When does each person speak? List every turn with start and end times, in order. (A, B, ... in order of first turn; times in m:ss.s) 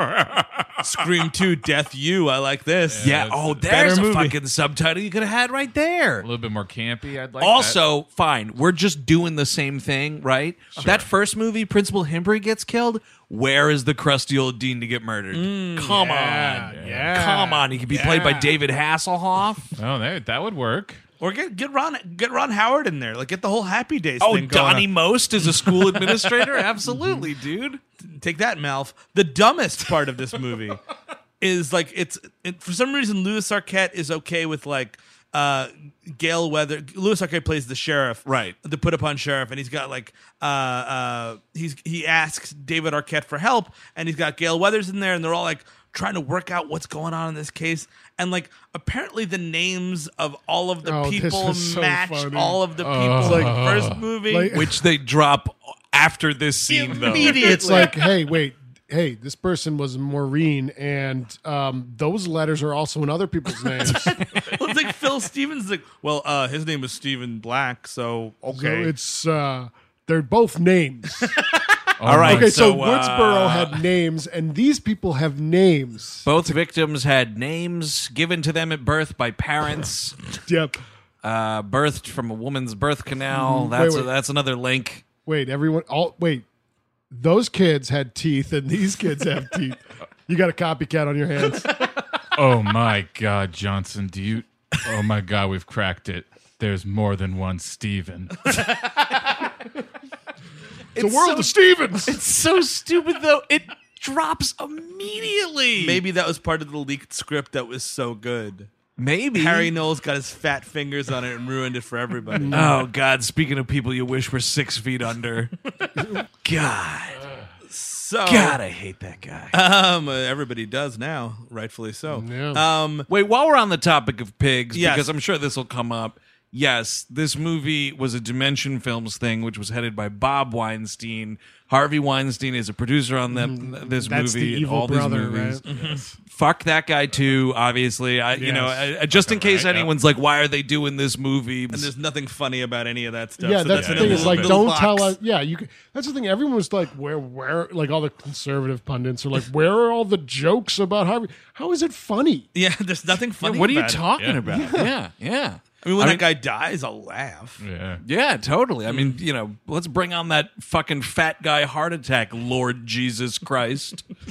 0:00.8-0:03.1 A
0:02.9-0:04.1 B
0:03.0-0:06.2 C
0:03.7-0:04.4 A
0:06.2-0:07.8 B
0:07.4-0:19.6 C
0:10.8-0:11.1 B
0:15.3-0:16.1 A
0:15.9-0:18.5 D
0:16.7-0:17.1 B
0:19.8-0:21.0 B
0:21.2-0:24.9 A
0:24.2-0:27.8 C
0:25.8-0:26.2 A
0:26.9-0:27.2 D
0:28.1-0:30.8 A
0:31.4-0:54.5 A
0:38.2-0:38.5 C
0:50.8-0:53.6 D
0:52.8-0:54.0 B
0:54.3-0:54.8 D
0:54.5-0:57.9 C
0:56.7-0:58.0 A
0:57.1-1:04.2 D
1:04.4-1:08.9 A
1:08.5-1:11.3 D
1:12.0-1:12.5 B
1:12.0-1:13.8 C
1:12.2-1:16.3 D
1:16.2-1:20.2 C
1:20.4-1:20.8 D
1:21.2-1:25.0 C
1:23.3-1:24.1 D
1:25.2-1:26.4 D
1:27.1-1:31.7 D
1:32.3-1:38.5 B
1:38.5-1:38.9 A
1:40.9-1:42.2 D
1:40.9-1:46.0 C
1:45.8-1:48.7 A
1:49.0-1:49.7 C
1:49.3-1:52.7 A
1:52.3-1:52.8 D
1:52.5-1:55.5 C
1:55.8-1:56.1 A
1:56.4-1:57.2 C
1:57.7-1:58.6 A
1:58.2-1:59.5 C
1:59.5-2:03.1 A
2:02.1-2:02.6 D
2:03.1-2:15.6 C
2:04.7-2:05.1 A
2:13.3-2:15.6 D
2:15.6-2:16.0 A
2:15.7-2:16.1 B
2:16.2-2:21.9 C
2:18.3-2:18.9 D
2:19.1-2:19.9 B
2:21.7-2:25.2 A
2:23.4-2:32.5 D
2:23.7-2:24.6 B
2:32.5-2:34.1 A
2:33.4-2:36.2 C
2:34.4-2:34.9 D
2:35.8-2:37.6 A
2:37.6-2:38.0 B
2:38.0-2:44.0 C
2:38.9-2:39.2 A